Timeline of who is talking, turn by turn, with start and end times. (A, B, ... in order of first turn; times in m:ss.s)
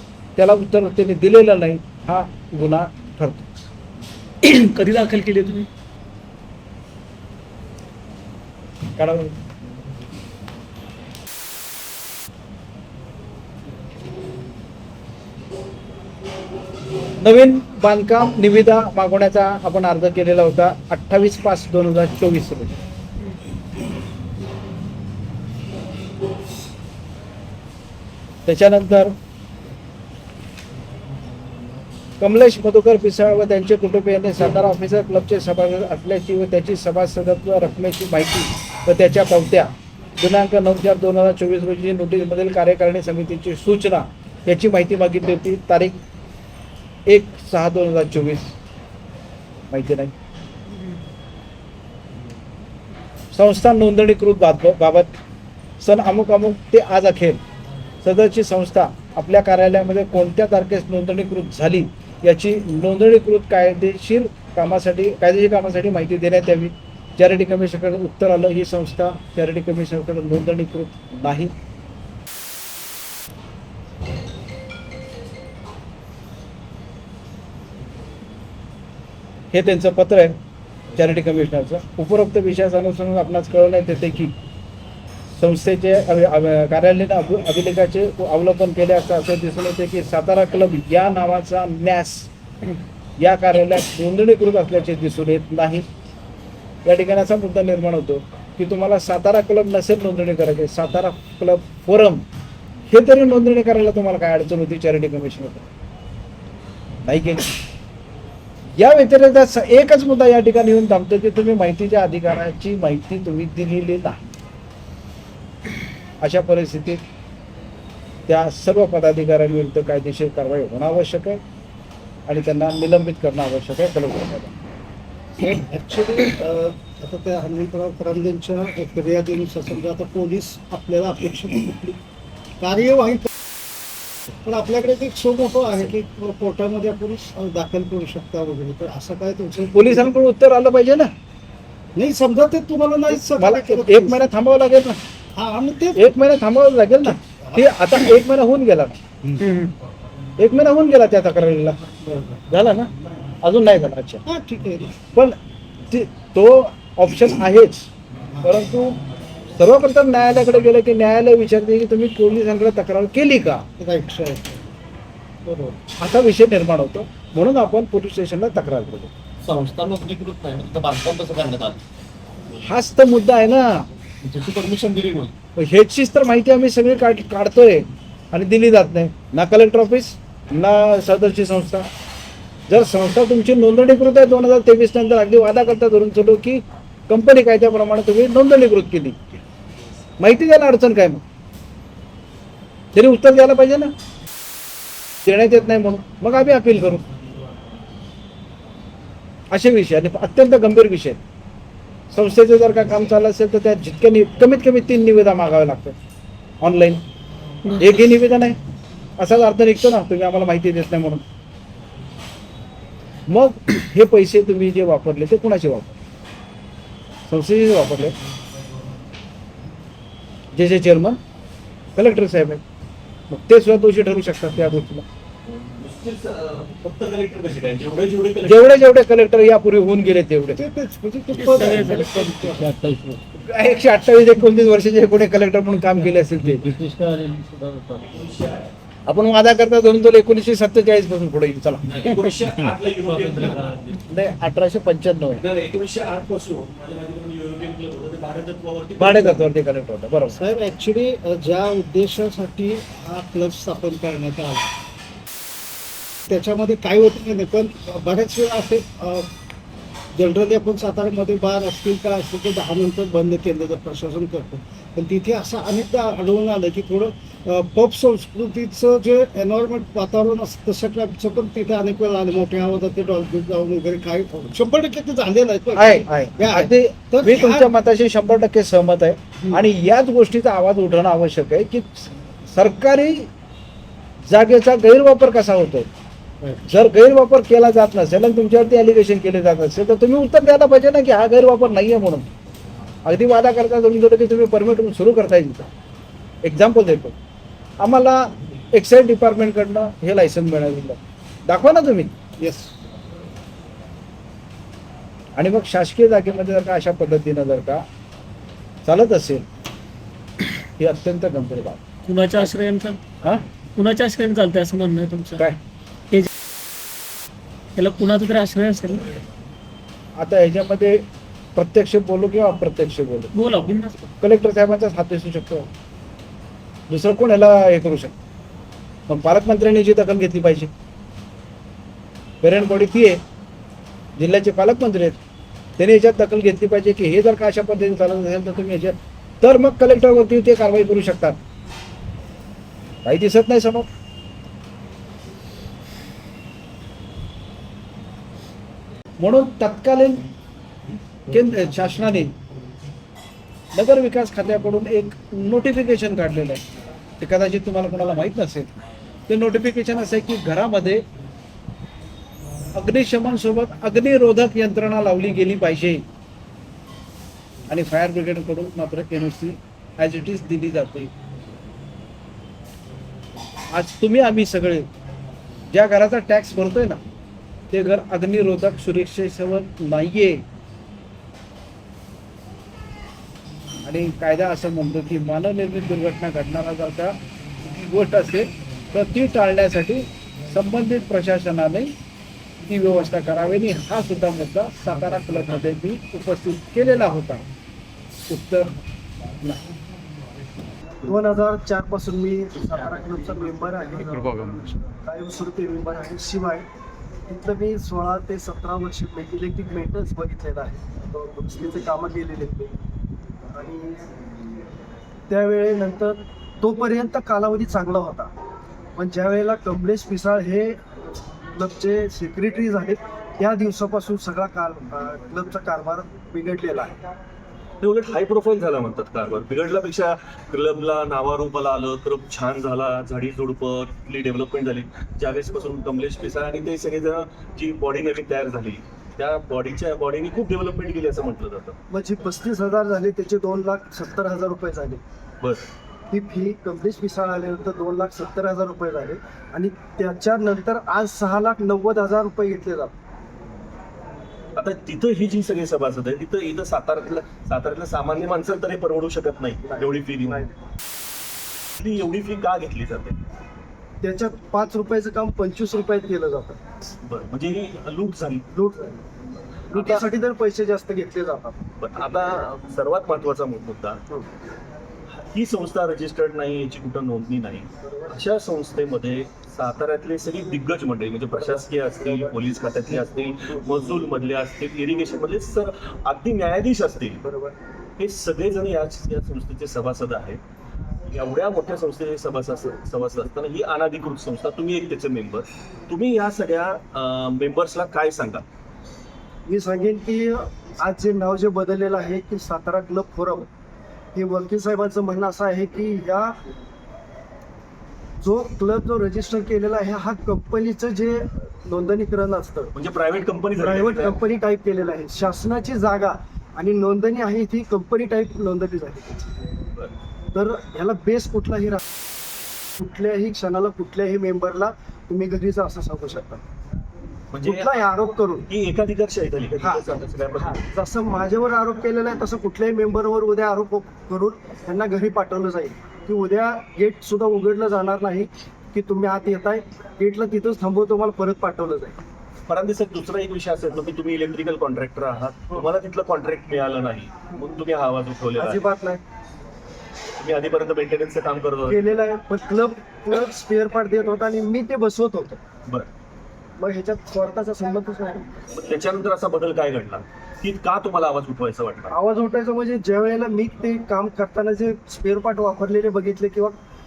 0:00.4-0:03.5 A
0:04.4-0:05.7 B
0:09.0-0:09.4 A
0:17.2-0:22.8 A
0:28.5-0:29.1 A
0:32.2-0:46.0 A
0:47.1-0:48.6 A
0:49.7-0:50.1 A
0:53.3-0:55.1 A
0:55.8-0:57.4 A
0:58.0-1:11.5 A
1:19.5-1:20.4 A
1:20.9-1:24.4 A
1:25.4-1:32.3 A
1:33.2-1:35.8 A
1:36.8-1:42.2 A
1:42.9-1:45.7 A
1:47.0-1:47.5 A
1:48.8-1:54.3 A
1:56.2-1:57.0 A
1:58.3-2:01.4 A
2:02.3-2:04.5 A
2:05.4-2:12.0 C
2:12.6-2:13.3 C
2:14.4-2:20.2 C
2:19.7-2:21.1 A
2:22.0-2:24.2 C
2:23.1-2:25.0 A
2:25.4-2:26.1 C
2:26.0-2:29.0 A
2:27.0-2:27.7 C
2:29.4-2:29.7 B
2:30.4-2:31.8 A
2:32.0-2:32.4 C
2:32.5-2:32.9 A
2:33.4-2:34.2 A
2:34.3-2:35.0 C
2:35.9-2:37.9 A
2:38.4-2:39.0 A
2:39.6-2:43.6 A
2:43.8-2:44.6 C
2:45.4-2:45.8 C
2:46.0-2:49.1 A
2:49.4-2:51.8 D
2:52.6-2:53.9 A
2:54.2-2:55.3 D
2:55.6-3:01.9 A
3:02.7-3:09.4 A
3:10.2-3:11.2 A
3:13.0-3:13.9 A
3:15.2-3:17.0 A
3:19.5-3:21.2 A
3:22.1-3:26.0 A
3:26.6-3:27.0 A
3:27.7-3:28.6 A
3:29.2-3:31.2 A
3:33.3-3:36.0 A
3:37.3-3:38.2 A
3:40.5-3:41.2 A
3:42.0-3:42.6 A
3:43.3-3:45.0 A
3:45.5-3:48.8 D
3:48.4-3:50.6 A
3:50.6-3:53.0 C
3:51.4-3:53.2 B
3:53.4-3:56.8 A
3:56.8-3:58.0 B
3:58.0-3:58.7 D
3:59.1-4:01.9 A
4:01.9-4:04.0 D
4:04.1-4:05.4 A
4:05.4-4:09.5 D
4:09.0-4:10.4 A
4:10.3-4:14.7 C
4:16.3-4:19.3 C
4:20.1-4:37.7 C
4:35.8-4:43.3 A
4:44.2-4:45.9 A
4:46.4-4:46.7 C
4:46.7-4:52.3 A
4:53.0-4:55.7 A
4:56.4-4:57.2 A
4:57.8-5:02.1 A
5:02.4-5:02.7 C
5:05.4-5:07.8 A
5:08.9-5:09.5 A
5:10.8-5:11.8 A
5:12.1-5:13.0 B
5:13.8-5:15.4 B
5:17.8-5:19.1 B
5:20.2-5:21.0 A
5:21.6-5:23.3 A
5:23.4-5:24.1 B
5:24.2-5:25.7 A
5:26.9-5:28.1 A
5:29.1-5:30.7 A
5:32.4-5:33.2 A
5:34.2-5:35.2 A
5:35.8-5:41.4 A
5:43.0-5:43.9 A
5:49.2-5:50.2 A
5:51.3-5:52.3 A
5:53.7-5:56.6 A
5:57.2-5:58.8 A
5:59.3-6:01.0 A
6:02.8-6:06.0 A
6:07.7-6:11.1 A
6:13.7-6:14.9 A
6:15.7-6:17.0 A
6:17.7-6:20.4 A
6:23.8-6:31.9 A
6:32.7-6:37.4 A
6:38.3-6:38.7 A
6:41.0-6:46.7 E
6:47.3-6:52.7 E
6:53.5-6:54.1 E
6:55.3-6:58.3 E
6:59.0-7:00.8 E
7:01.5-7:07.0 E
7:07.8-7:21.8 D
7:21.9-7:25.0 E
7:26.1-7:32.9 E
7:34.6-7:40.5 D
7:39.6-7:40.5 E
7:41.8-7:43.2 D
7:44.0-7:46.6 E
7:47.1-7:48.5 D
7:48.5-7:49.0 E
7:49.7-7:51.6 E
7:49.7-7:50.1 D
7:51.8-7:54.0 D
7:55.3-8:07.2 D
7:57.8-7:58.2 E
8:01.4-8:02.4 E
8:07.2-8:07.6 E
8:08.0-8:10.4 D
8:11.1-8:18.4 D
8:19.5-8:23.5 E
8:24.2-8:26.4 E
8:28.2-8:32.7 E
8:32.7-8:34.2 D
8:33.6-8:39.4 E
8:40.3-8:41.8 E
8:42.8-8:46.4 E
8:47.3-8:47.8 D
8:47.4-8:48.5 E
8:48.5-8:50.6 D
8:49.6-9:02.0 E
9:02.5-9:08.6 D
9:08.4-9:09.0 E
9:10.2-9:12.0 D
9:11.6-9:15.4 E
9:16.6-9:18.3 E
9:18.6-9:22.0 D
9:21.9-9:26.6 E